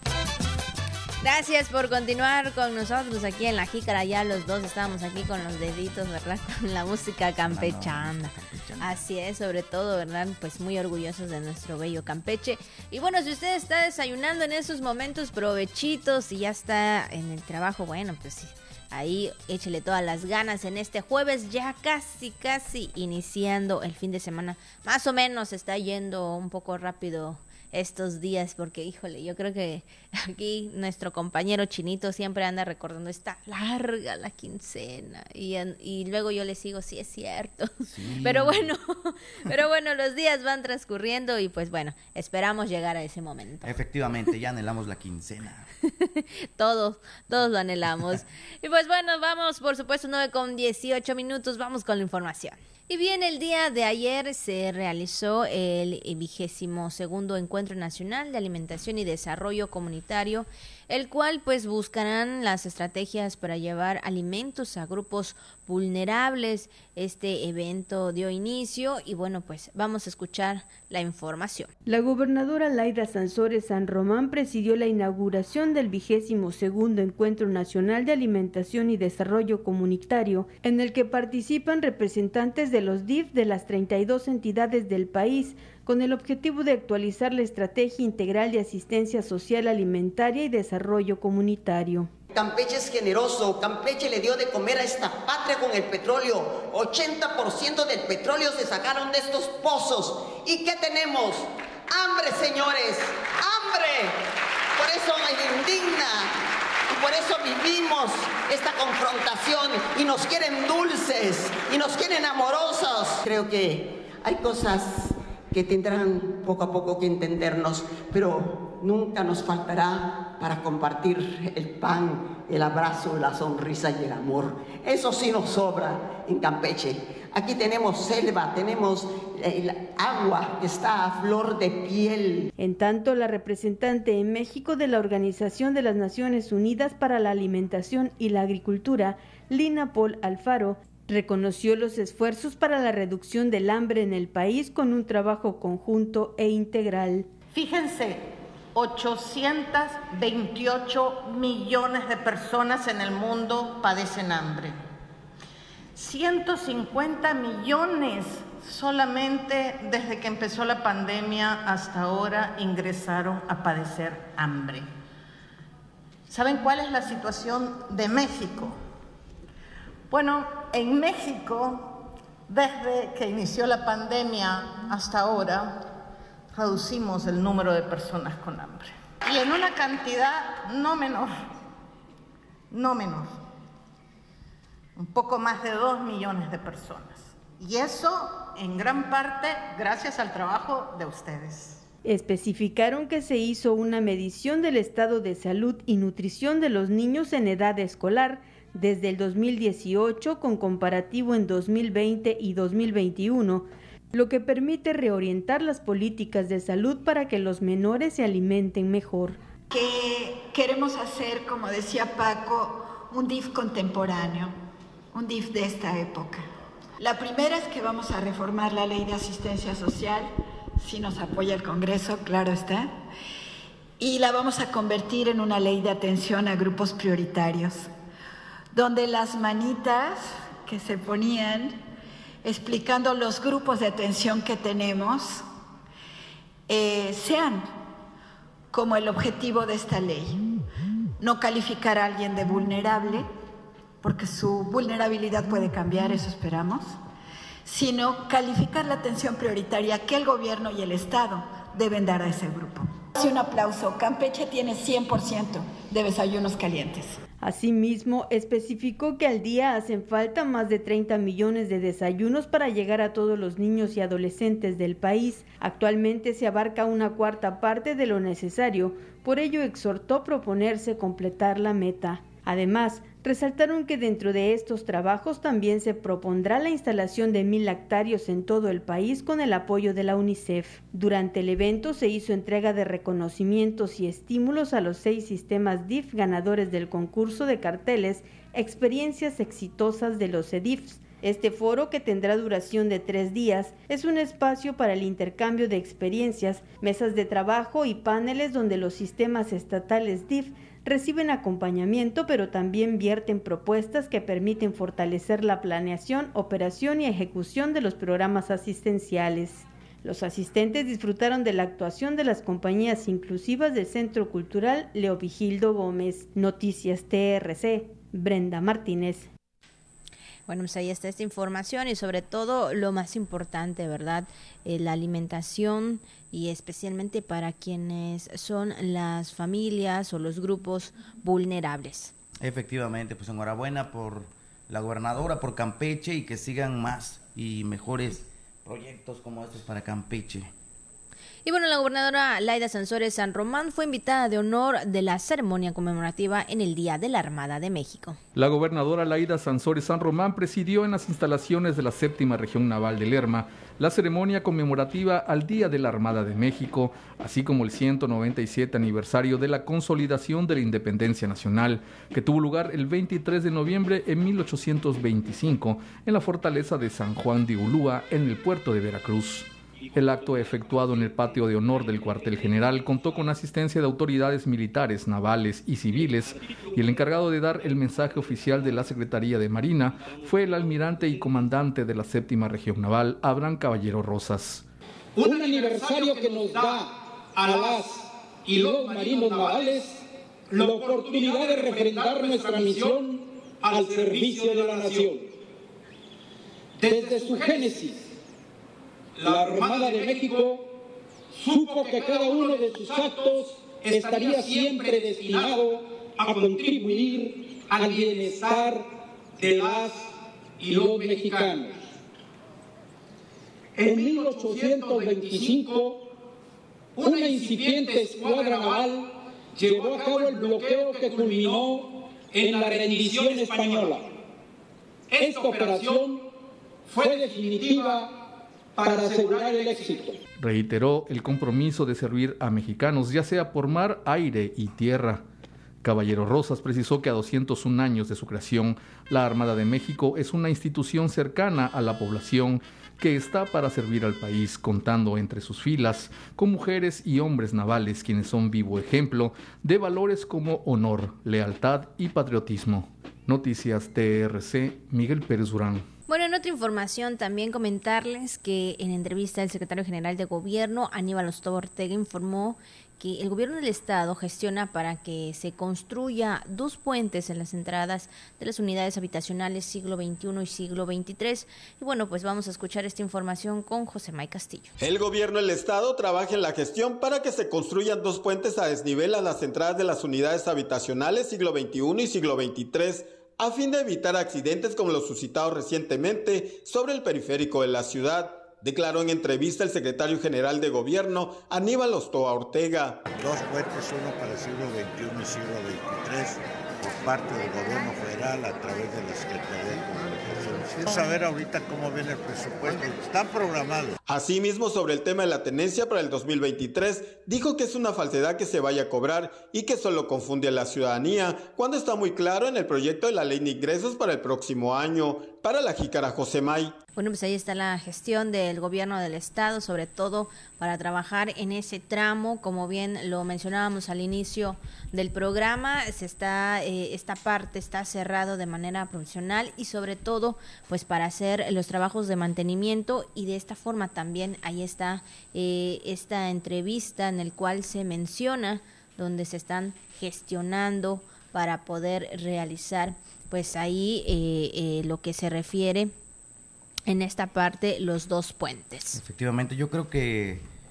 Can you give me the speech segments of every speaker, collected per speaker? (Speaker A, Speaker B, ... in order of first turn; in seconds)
Speaker A: 1.2-43.7, 45.8-71.7, 320.5-332.1, 341.4-348.2, 456.1-474.7, 517.0-545.9, 546.9-549.0
Speaker B: 7.4-8.9, 37.8-38.7, 43.6-45.7, 332.4-340.5, 548.9-550.4
Speaker C: 71.9-92.1, 132.6-147.3, 192.0-209.4, 257.4-319.3
Speaker D: 92.3-104.2, 104.8-106.3, 106.9-132.5
Speaker E: 147.5-154.8, 155.9-164.9, 166.3-168.8, 170.1-175.8, 176.5-181.3, 182.7-183.3, 185.0-191.8
Speaker F: 209.7-214.5, 215.1-216.4, 217.0-222.9, 224.0-227.9, 228.7-231.8, 232.4-235.4, 236.7-237.7, 238.7-240.5, 241.2-243.2, 244.0-246.8, 247.6-257.2
Speaker G: 348.4-384.6, 430.4-435.2, 435.8-455.8
Speaker H: 385.2-395.3, 396.8-398.1, 399.1-400.7, 401.3-410.1, 410.6-411.8, 413.8-416.1, 417.0-424.1, 425.1-426.3, 426.9-428.1, 428.8-430.2
Speaker I: 474.8-493.0, 504.1-516.7
Speaker J: 493.1-503.9